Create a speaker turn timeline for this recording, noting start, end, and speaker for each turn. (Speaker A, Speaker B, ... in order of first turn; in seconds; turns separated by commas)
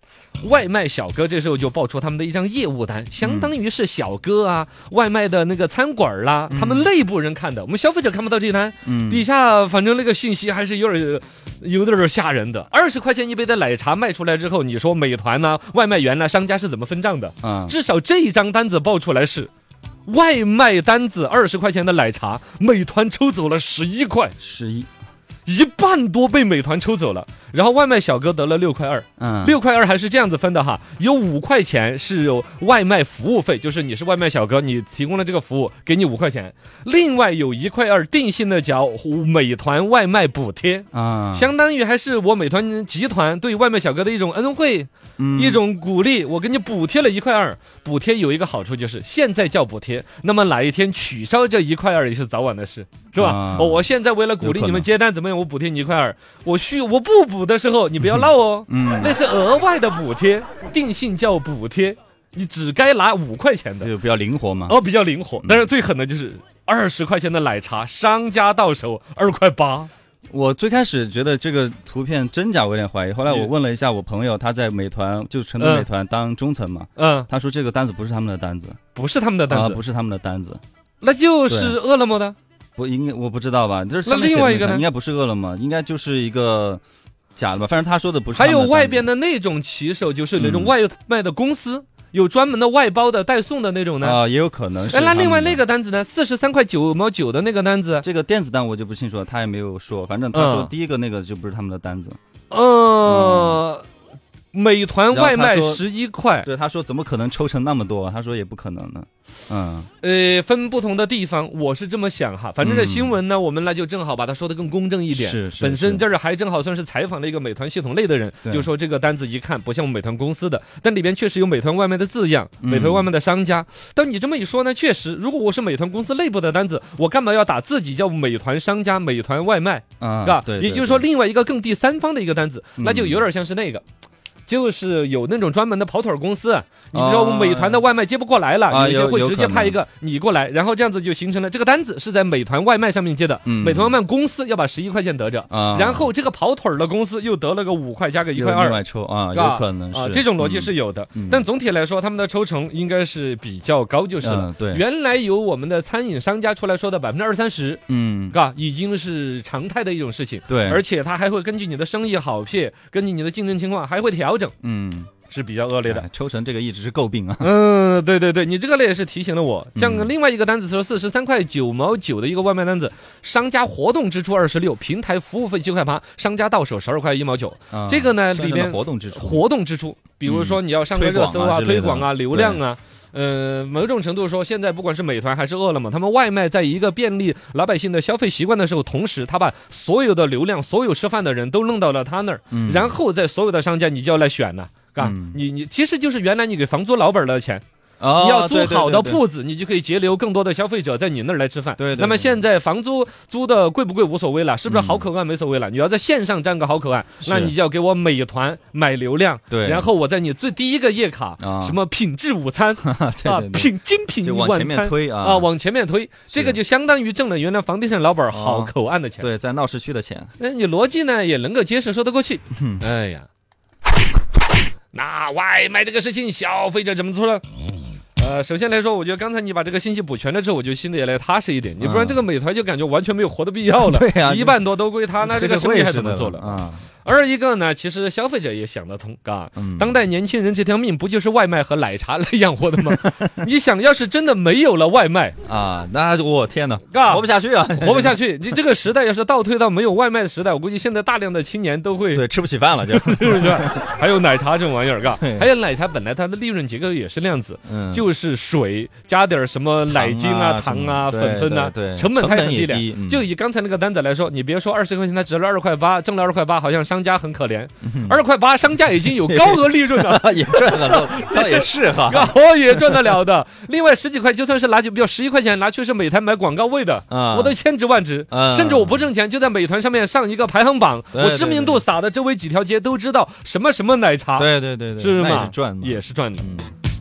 Speaker A: 0.4-19.5, Speaker B: 3.2-3.5, Speaker B: 6.5-6.9, Speaker B: 8.8-9.2, Speaker B: 17.4-17.7, Speaker A: 20.1-24.3, Speaker B: 24.4-24.9, Speaker A: 25.4-63.9, Speaker B: 29.2-29.6, Speaker B: 40.9-41.5, Speaker B: 45.2-45.6, Speaker B: 53.1-53.9, Speaker B: 54.4-54.9, Speaker B: 58.0-59.2, Speaker B: 63.8-64.8, Speaker A: 64.7-69.9, Speaker B: 70.3-78.8, Speaker A: 75.6-75.9, Speaker A: 77.0-77.3, Speaker A: 78.9-79.8, Speaker B: 79.5-80.6, Speaker A: 81.0-82.3, Speaker B: 81.5-81.8, Speaker B: 82.8-86.8, Speaker A: 84.0-84.8, Speaker B: 87.3-89.1, Speaker A: 88.3-94.2, Speaker B: 90.4-90.7, Speaker B: 94.0-95.6, Speaker A: 94.9-98.0, Speaker B: 98.0-102.2, Speaker A: 100.3-100.7, Speaker A: 102.5-103.8, Speaker B: 103.0-103.6, Speaker A: 104.5-106.5, Speaker B: 105.1-105.8, Speaker B: 106.4-109.9, Speaker A: 110.0-133.8, Speaker B: 112.6-113.2, Speaker B: 115.1-116.0, Speaker B: 122.6-123.1, Speaker B: 130.0-131.0, Speaker B: 132.8-133.2, Speaker A: 134.5-148.8, Speaker B: 136.9-137.8, Speaker B: 138.7-139.8, Speaker B: 143.4-144.0, Speaker B: 145.5-146.1, Speaker B: 148.3-151.5, Speaker A: 149.3-164.5, Speaker B: 154.2-154.8, Speaker B: 157.9-158.4, Speaker B: 160.5-160.8, Speaker B: 164.6-165.1, Speaker A: 165.3-166.0, Speaker B: 165.8-167.5, Speaker A: 167.4-197.6, Speaker B: 169.8-170.1, Speaker B: 177.7-179.4, Speaker B: 180.2-182.6, Speaker B: 192.5-192.9, Speaker B: 195.0-195.4, Speaker B: 198.0-199.2, Speaker A: 198.2-219.3, Speaker B: 201.8-202.4, Speaker B: 204.7-205.1, Speaker B: 207.2-207.5, Speaker B: 209.5-209.9, Speaker B: 211.4-211.8, Speaker B: 212.8-215.5, Speaker B: 216.3-216.6, Speaker B: 218.3-220.3, Speaker A: 220.4-223.3, Speaker B: 222.6-222.8, Speaker A: 224.9-227.4, Speaker A: 228.2-245.3, Speaker B: 231.8-232.2, Speaker B: 233.7-234.6, Speaker B: 235.2-236.8, Speaker B: 239.6-240.0, Speaker B: 242.8-243.4, Speaker B: 245.4-248.2, Speaker A: 246.9-252.2, Speaker B: 252.1-253.9, Speaker A: 252.9-286.5, Speaker B: 255.2-255.5, Speaker B: 257.7-258.1, Speaker B: 259.9-263.2, Speaker B: 267.8-268.2, Speaker B: 269.1-273.2, Speaker B: 277.1-277.6, Speaker B: 278.3-279.1, Speaker B: 281.1-281.8, Speaker B: 284.4-286.7